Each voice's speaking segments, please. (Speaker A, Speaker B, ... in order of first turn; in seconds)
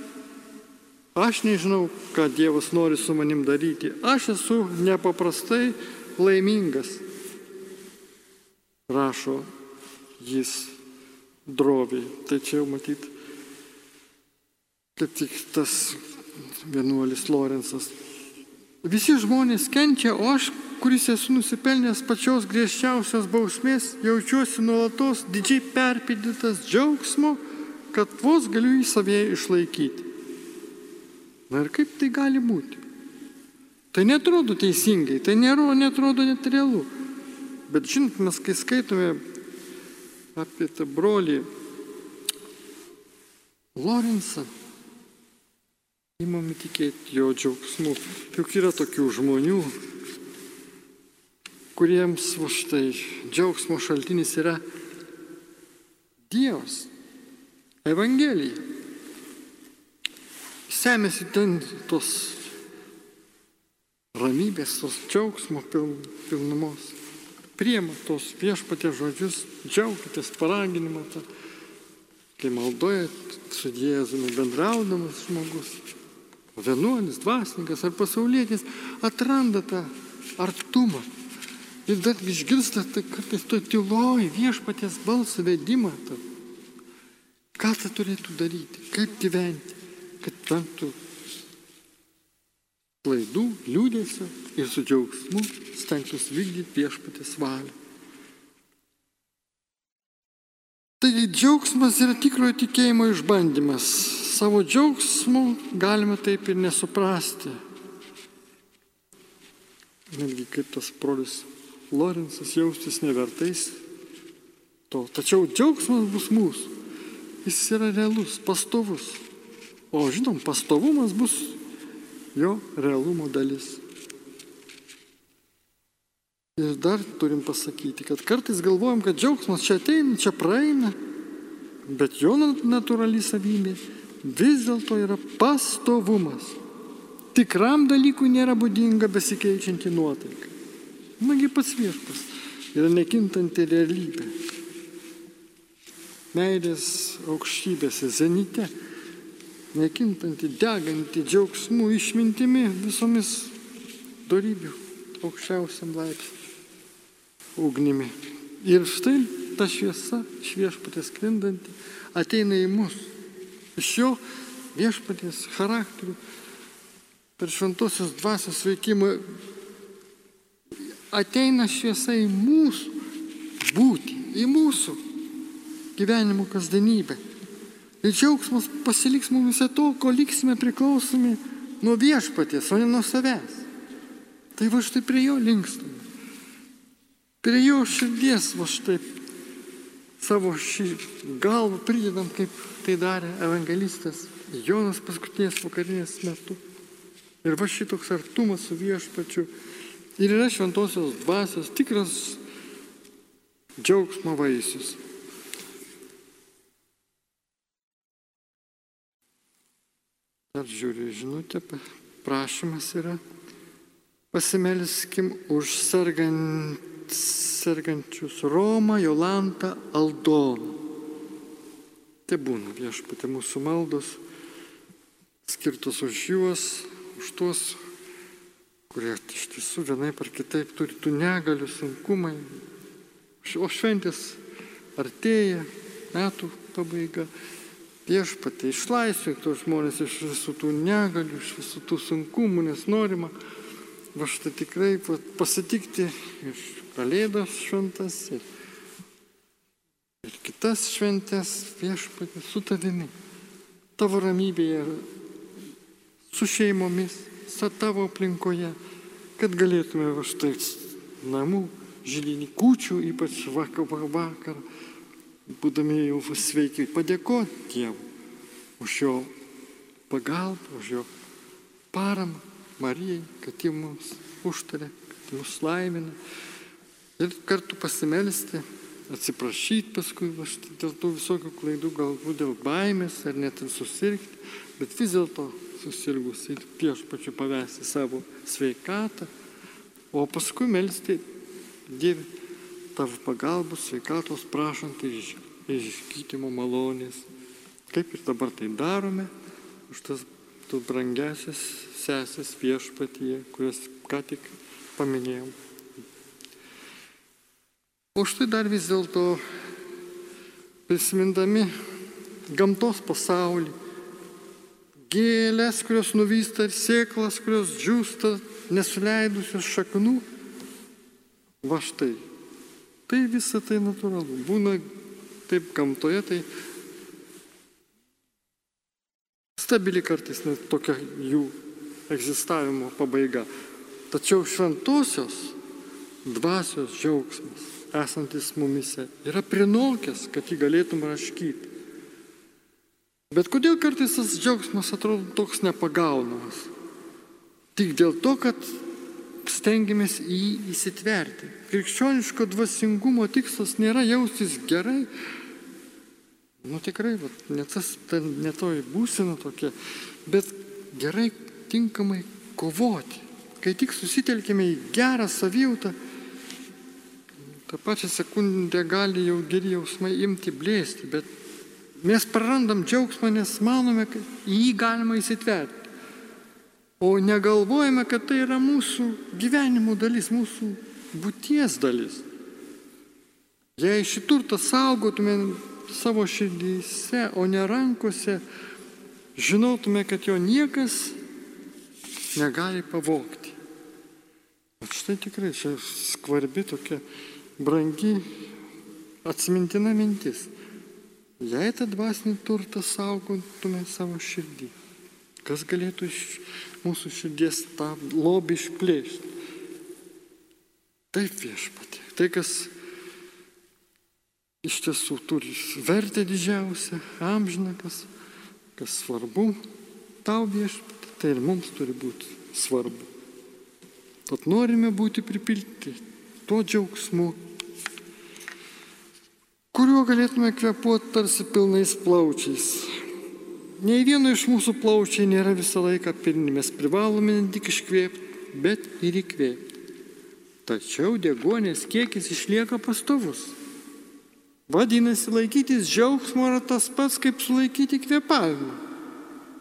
Speaker A: 1.1-7.0, 8.9-9.5, 10.2-10.8, 11.5-13.1, 15.0-16.0, 16.6-17.9, 18.8-30.1, 31.5-32.8, 33.9-36.9, 37.7-39.2, 40.4-41.5, 43.8-44.5, 46.2-49.7, 51.8-54.6, 56.3-56.9, 57.9-58.6, 60.7-62.5, 64.1-67.0, 67.6-71.3, 72.4-75.8, 76.6-81.1, 81.9-86.2, 87.6-91.0, 93.0-97.7, 101.0-107.6, 110.1-113.8, 114.9-116.7, 117.5-119.2, 119.9-121.6, 122.3-123.8, 126.6-131.0, 131.9-136.6, 137.3-140.5, 141.2-144.3, 146.3-148.7, 149.7-153.6, 154.3-156.3, 157.6-163.1, 163.8-164.2, 164.8-166.2, 167.4-169.2, 171.1-172.9, 173.7-175.0, 176.0-177.2, 178.0-183.7, 184.6-186.1, 187.4-189.1, 190.2-196.6, 197.4-199.5, 200.2-202.4, 203.8-205.0, 210.5-213.2, 214.3-220.8, 222.3-224.2, 225.4-227.8, 228.9-232.5, 233.4-234.4, 235.0-237.3, 238.1-243.3, 244.2-248.4, 250.2-253.1, 254.0-255.1, 256.3-258.8, 259.4-264.6, 265.5-268.0, 268.8-269.3, 270.1-271.1, 271.9-276.2, 277.2-289.3, 290.1-291.2, 291.9-292.3, 292.9-297.3, 297.9-299.3, 299.9-305.6, 308.1-309.4, 310.9-311.7, 312.5-313.8, 315.1-320.2, 321.6-322.3, 323.1-324.8, 325.5-326.5, 329.6-331.6, 332.1-333.5, 334.1-335.6, 336.2-341.7, 343.3-346.7, 347.8-348.8, 349.4-355.1, 356.6-359.7, 360.3-365.9, 367.7-371.3, 372.0-375.8, 377.0-382.2, 383.8-388.4, 389.4-391.2, 392.4-393.6, 394.8-397.0, 397.6-398.2, 399.2-400.5, 401.4-404.7, 405.4-409.3, 411.1-412.7, 414.6-418.1, 418.8-419.6, 420.2-423.1, 424.3-427.4, 429.7-433.0, 433.8-439.6, 440.7-443.6, 444.7-448.8